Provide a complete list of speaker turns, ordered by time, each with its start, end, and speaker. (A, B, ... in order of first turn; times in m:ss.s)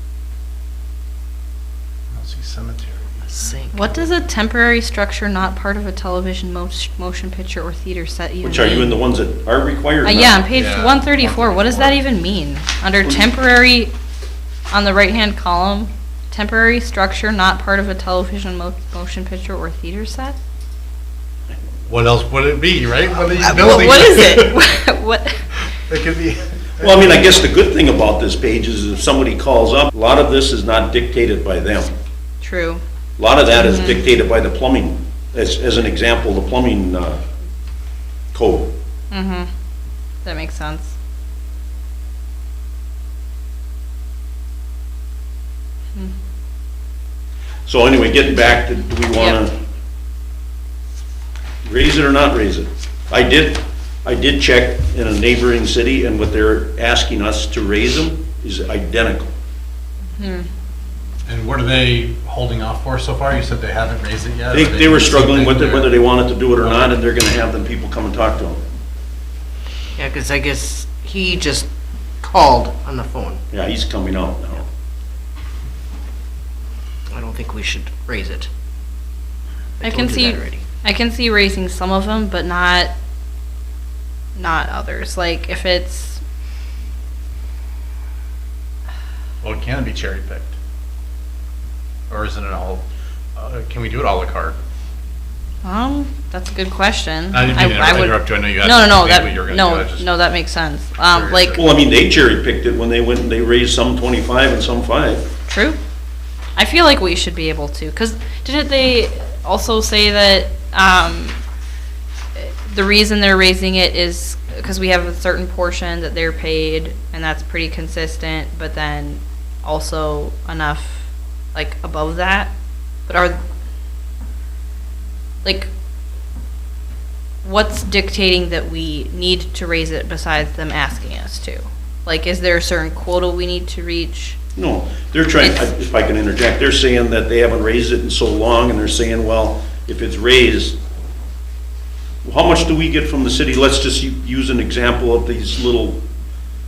0:02.1-0:03.3 A
0:03.3-0:04.0 B
0:03.7-0:09.0 C
0:08.4-0:10.4 D
0:10.0-0:13.9 C
0:10.5-0:12.0 A
0:14.7-0:20.4 C
0:21.9-0:24.6 A
0:23.4-0:25.4 C
0:25.9-0:27.3 A
0:26.8-0:31.9 D
0:32.4-0:32.8 C
0:33.2-0:37.2 D
0:33.5-0:34.0 C
0:38.3-0:38.7 D
0:39.1-0:39.5 C
0:40.2-0:40.9 C
0:47.7-0:49.5 D
0:49.2-0:49.4 C
0:51.6-0:59.3 D
1:00.2-1:00.5 C
1:01.3-1:06.0 A
1:04.5-1:08.6 D
1:06.6-1:06.9 A
1:10.0-1:11.7 B
1:12.2-1:13.4 B
1:13.5-1:14.7 D
1:17.1-1:18.5 B
1:19.8-1:22.9 C
1:19.8-1:20.6 B
1:24.4-1:26.2 C
1:29.4-1:30.5 A
1:32.1-1:32.8 A
1:33.4-1:34.6 A
1:35.6-1:41.6 C
1:37.3-1:40.1 A
1:41.1-1:41.7 A
1:41.6-1:45.3 D
1:45.5-1:45.8 C
1:46.6-1:51.4 C
1:52.4-2:02.5 C
2:03.1-2:03.4 C
2:05.4-2:05.7 C
2:07.4-2:14.4 C
2:14.6-2:20.8 D
2:22.2-2:26.0 D